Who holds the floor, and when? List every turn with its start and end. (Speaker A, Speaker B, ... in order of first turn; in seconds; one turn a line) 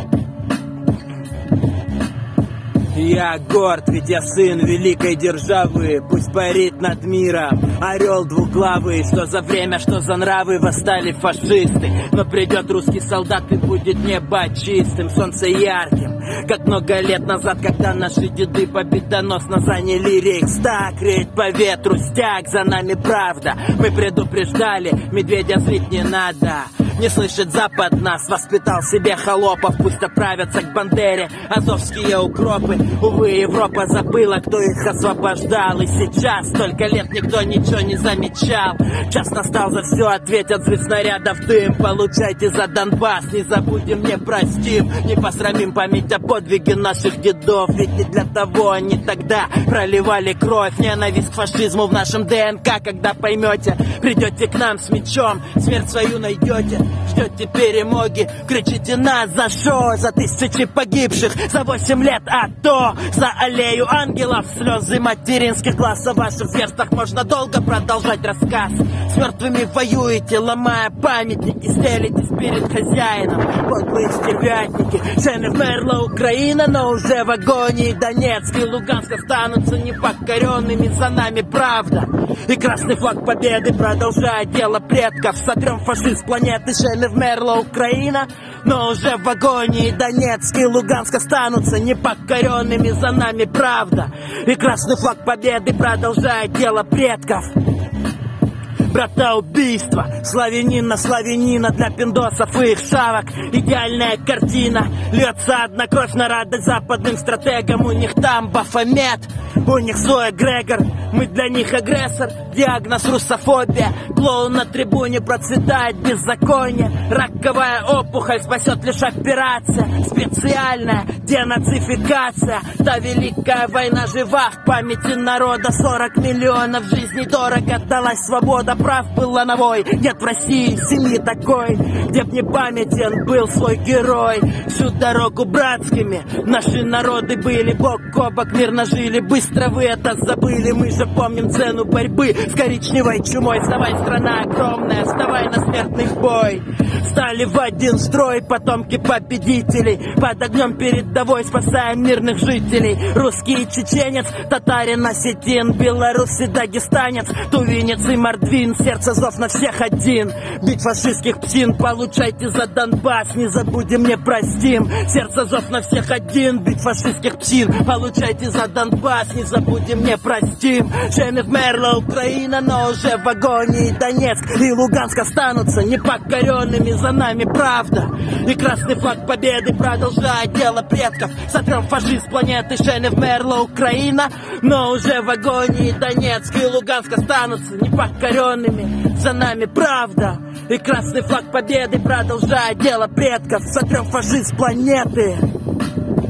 Speaker A: 2.9-97.5
Speaker A: 98.9-195.4